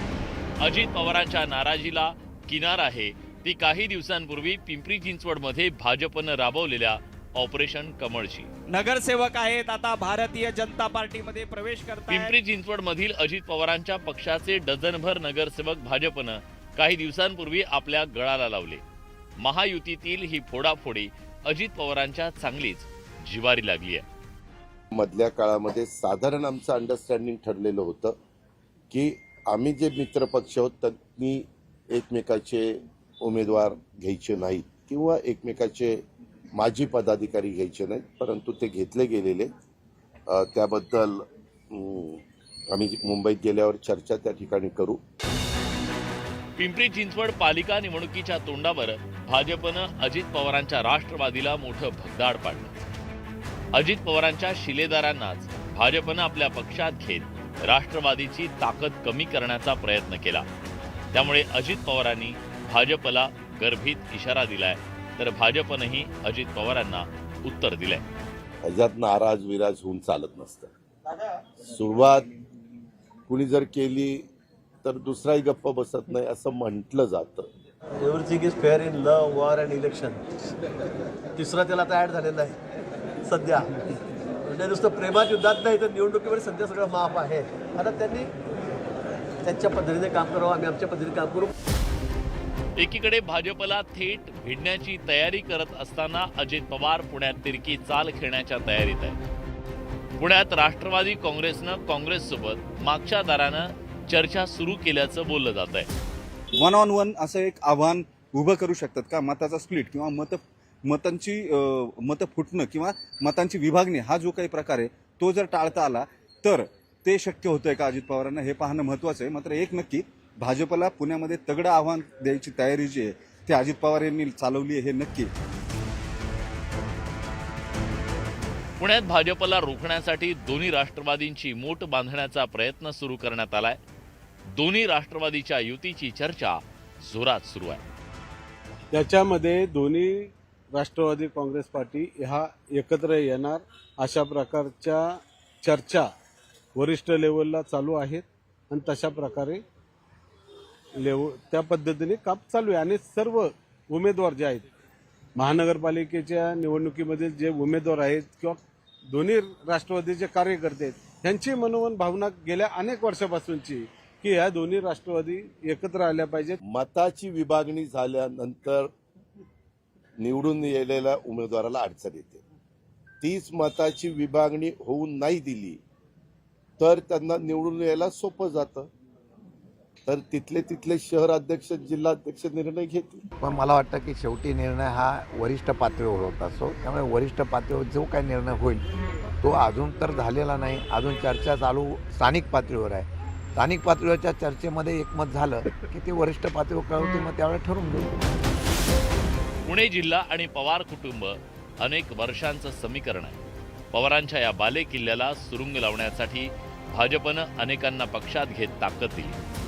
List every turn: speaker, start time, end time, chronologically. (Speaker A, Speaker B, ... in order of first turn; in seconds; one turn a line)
Speaker A: 0.6-8.5
Speaker B: 8.7-12.3
Speaker A: 12.1-18.8
Speaker A: 19.4-24.0
Speaker C: 24.9-28.1
Speaker C: 28.9-36.0
Speaker C: 36.5-39.5
Speaker C: 40.3-45.0
Speaker A: 46.6-52.8
Speaker A: 53.7-60.5
Speaker A: 61.1-68.0
Speaker C: 68.6-70.7
Speaker C: 71.7-72.3
Speaker C: 73.3-74.2
Speaker C: 74.8-77.5
Speaker D: 78.0-80.5
Speaker D: 81.3-82.6
Speaker D: 83.2-83.8
Speaker D: 84.4-88.3
Speaker D: 89.4-91.5
Speaker A: 92.8-99.2
Speaker A: 100.2-105.9
Speaker E: 106.6-125.3
Speaker A: 128.8-133.8
Speaker A: 134.5-137.8
Speaker F: 138.9-146.1
Speaker F: 146.7-149.6
Speaker F: 151.0-154.7
Speaker F: 155.3-166.6
Speaker C: 166.7-168.9
Speaker C: 170.2-172.4
Speaker C: 173.2-175.8
Speaker C: 176.8-178.9
Speaker C: 180.1-183.2
Speaker G: 183.4-188.8
Speaker G: 189.4-198.3
Speaker A: 199.7-203.4
Speaker A: 203.9-209.4